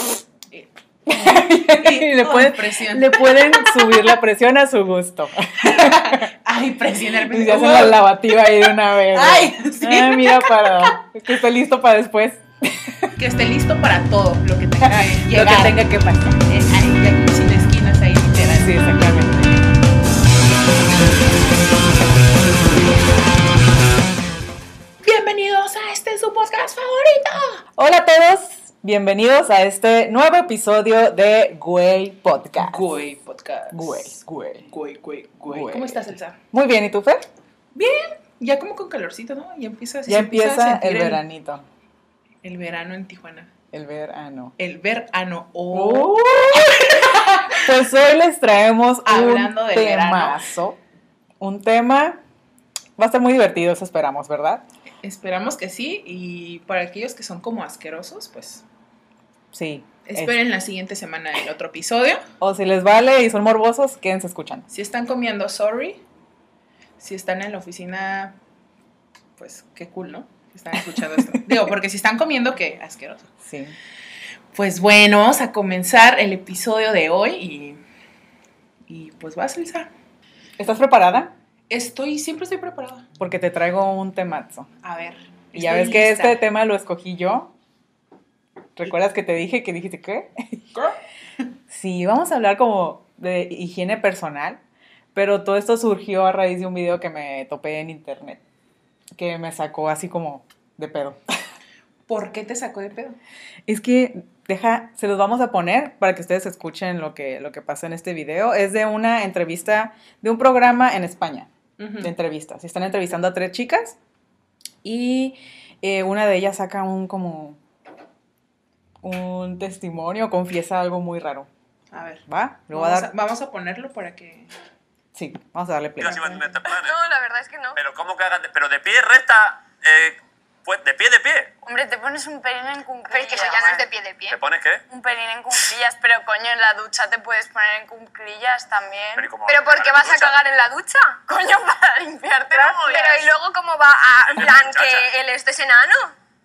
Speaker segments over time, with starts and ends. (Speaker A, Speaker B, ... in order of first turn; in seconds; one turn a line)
Speaker A: 1.1-6.3
Speaker B: 1.7-4.1
Speaker B: 5.6-8.0
Speaker A: 7.3-13.1
Speaker B: 9.1-10.9
Speaker B: 13.2-15.8
Speaker A: 14.8-16.4
Speaker B: 16.5-18.8
Speaker A: 18.5-19.7
Speaker B: 25.0-27.6
Speaker A: 27.8-32.8
Speaker B: 32.5-34.1
Speaker A: 33.7-34.7
Speaker B: 34.7-36.4
Speaker A: 35.5-37.3
Speaker B: 37.7-41.2
Speaker A: 40.1-41.6
Speaker B: 42.4-43.5
Speaker A: 43.7-44.5
Speaker B: 44.6-46.2
Speaker A: 45.7-50.8
Speaker B: 46.9-47.7
Speaker B: 49.0-50.4
Speaker A: 51.4-52.2
Speaker A: 53.0-54.6
Speaker B: 55.0-58.6
Speaker A: 59.5-60.4
Speaker B: 60.1-62.2
Speaker A: 62.4-64.7
Speaker B: 64.7-66.0
Speaker B: 67.0-68.4
Speaker B: 69.4-73.3
Speaker A: 73.4-73.8
Speaker B: 74.5-77.8
Speaker B: 78.9-79.9
Speaker A: 80.6-81.3
Speaker B: 81.7-83.0
Speaker A: 83.2-84.7
Speaker B: 84.8-86.4
Speaker A: 85.5-87.5
Speaker A: 88.8-90.7
Speaker A: 91.7-94.6
Speaker A: 95.1-98.4
Speaker A: 99.2-101.2
Speaker B: 102.1-103.2
Speaker A: 103.7-111.5
Speaker B: 111.8-112.1
Speaker A: 112.0-114.0
Speaker A: 114.8-117.6
Speaker A: 119.0-121.5
Speaker B: 121.9-124.5
Speaker A: 122.3-123.1
Speaker A: 125.1-126.4
Speaker C: 126.0-127.0
Speaker D: 126.3-127.8
Speaker C: 127.8-131.5
Speaker D: 131.6-133.9
Speaker E: 133.1-134.4
Speaker C: 134.3-134.8
Speaker D: 134.9-143.4
Speaker C: 139.2-140.4
Speaker C: 142.5-143.2
Speaker E: 142.7-146.1
Speaker D: 144.3-144.7
Speaker C: 144.4-145.1